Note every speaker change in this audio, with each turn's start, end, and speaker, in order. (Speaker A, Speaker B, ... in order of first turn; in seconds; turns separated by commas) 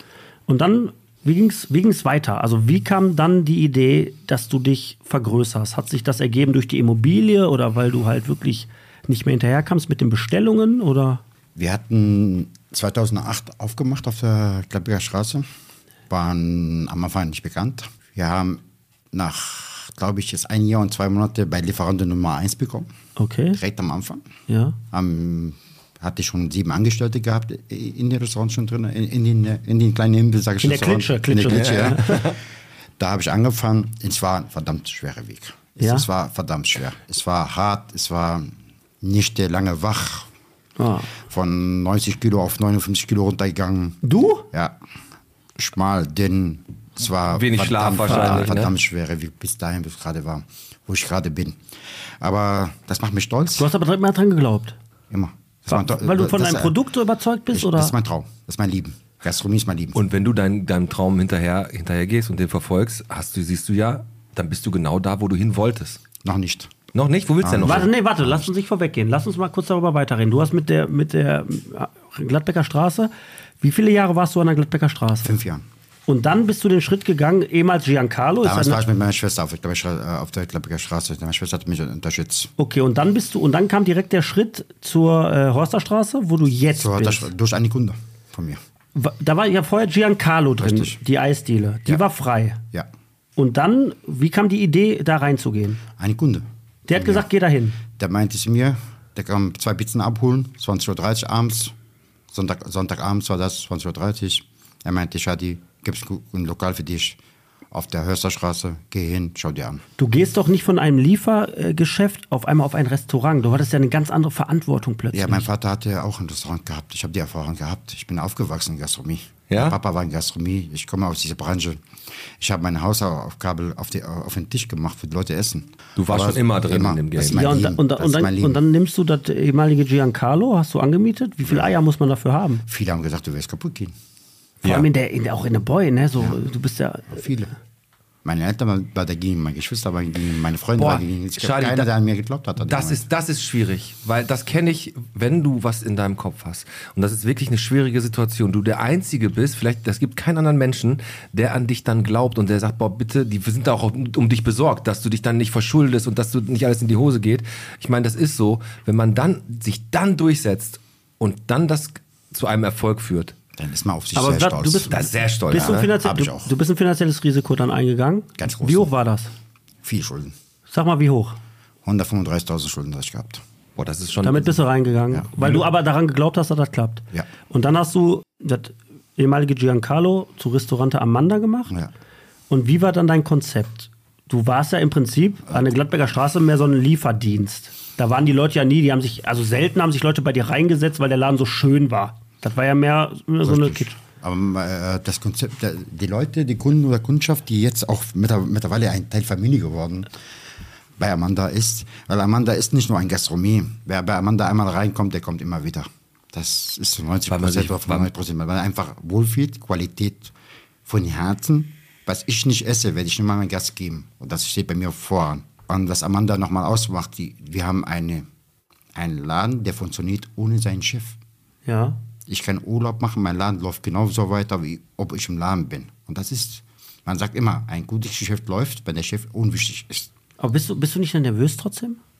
Speaker A: 0.5-11.2, Speaker B: 11.6-15.4, Speaker B: 16.1-18.6, Speaker B: 19.1-22.9, Speaker A: 23.2-23.6, Speaker B: 23.5-24.2, Speaker A: 24.5-24.8, Speaker B: 24.9-32.4, Speaker A: 30.6-32.2, Speaker C: 31.5-32.4, Speaker B: 33.0-40.3, Speaker A: 35.8-36.0, Speaker A: 40.8-41.1, Speaker B: 41.2-44.8, Speaker A: 44.0-44.5, Speaker B: 45.6-51.6, Speaker C: 47.3-48.7, Speaker A: 48.1-48.5, Speaker B: 52.2-53.7, Speaker A: 53.6-54.8, Speaker B: 55.1-56.7, Speaker A: 55.7-57.9, Speaker B: 57.5-60.0, Speaker C: 60.0-66.0, Speaker B: 66.2-66.7, Speaker C: 66.9-67.9, Speaker B: 67.4-68.5, Speaker A: 67.6-75.3, Speaker B: 75.2-75.6, Speaker A: 76.1-78.8, Speaker B: 78.4-82.5, Speaker A: 82.6-87.3, Speaker B: 86.7-88.6, Speaker A: 88.9-92.6, Speaker B: 90.6-91.0, Speaker A: 93.4-95.8, Speaker B: 96.0-97.3, Speaker A: 96.9-97.8, Speaker B: 97.9-101.7, Speaker B: 102.3-107.2, Speaker B: 107.7-109.8, Speaker A: 110.0-115.5, Speaker B: 115.1-121.8, Speaker C: 119.5-119.8, Speaker B: 122.4-128.6, Speaker C: 126.0-127.4, Speaker A: 127.3-132.6, Speaker B: 131.4-131.7, Speaker B: 132.7-133.9, Speaker C: 134.6-134.9, Speaker A: 134.6-137.2, Speaker B: 137.1-137.5, Speaker B: 138.2-143.0, Speaker A: 140.8-141.0, Speaker C: 141.4-141.9, Speaker C: 142.6-163.3, Speaker B: 163.6-164.9, Speaker A: 164.1-169.3, Speaker C: 164.9-165.9, Speaker B: 165.5-166.5, Speaker B: 168.4-168.9, Speaker B: 169.8-170.3, Speaker A: 170.7-171.4, Speaker B: 171.8-173.4, Speaker C: 173.8-174.6, Speaker A: 174.2-181.7, Speaker A: 182.5-194.0, Speaker B: 185.5-185.7, Speaker B: 193.4-200.1, Speaker B: 201.0-210.3, Speaker C: 207.3-208.1, Speaker B: 210.8-218.2, Speaker B: 218.9-221.2, Speaker A: 221.7-222.0, Speaker B: 222.3-230.1, Speaker A: 230.4-232.0